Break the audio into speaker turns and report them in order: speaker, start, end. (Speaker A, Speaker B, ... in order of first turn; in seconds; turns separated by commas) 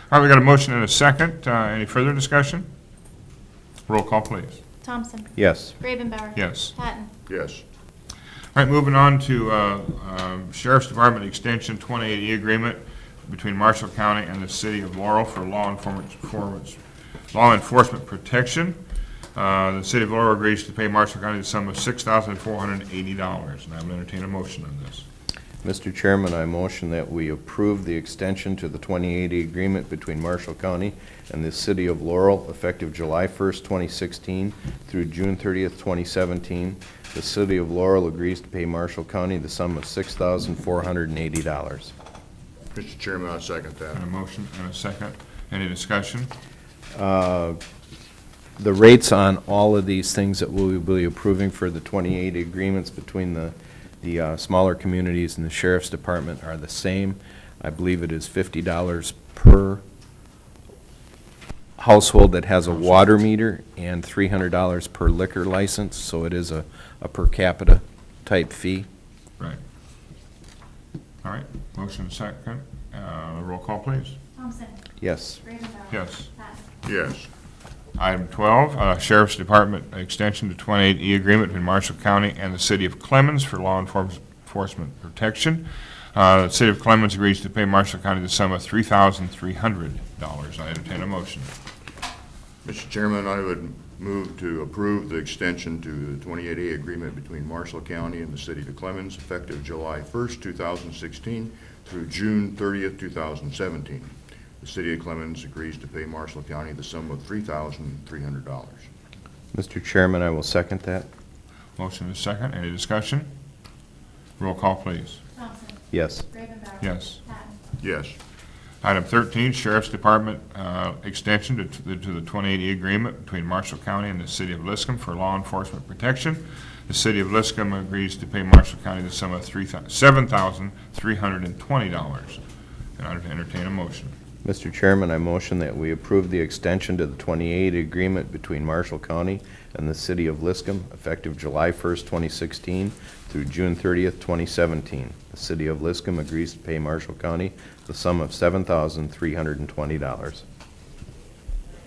Speaker A: 0.1-2.7, Speaker A: 3.9-4.6, Speaker B: 4.8-7.1, Speaker C: 5.3-5.8, Speaker A: 6.3-6.8, Speaker D: 7.3-7.6, Speaker A: 8.5-16.8, Speaker A: 17.3-18.8, Speaker A: 19.3-25.1, Speaker C: 25.6-41.9, Speaker D: 42.7-44.0, Speaker A: 43.9-46.3, Speaker C: 46.9-47.6, Speaker C: 48.6-59.8, Speaker C: 61.8-68.9, Speaker A: 71.2-74.2, Speaker B: 74.4-74.8, Speaker C: 75.0-75.4, Speaker B: 75.5-76.6, Speaker A: 75.9-76.3, Speaker D: 76.8-77.3, Speaker A: 78.0-91.5, Speaker D: 92.6-108.9, Speaker C: 109.5-111.1, Speaker A: 111.8-113.3, Speaker A: 114.4-115.2, Speaker B: 115.3-115.8, Speaker C: 115.9-116.3, Speaker B: 116.3-117.6, Speaker A: 116.8-117.2, Speaker D: 117.8-118.2, Speaker A: 118.8-132.4, Speaker A: 133.0-134.1, Speaker C: 134.4-150.4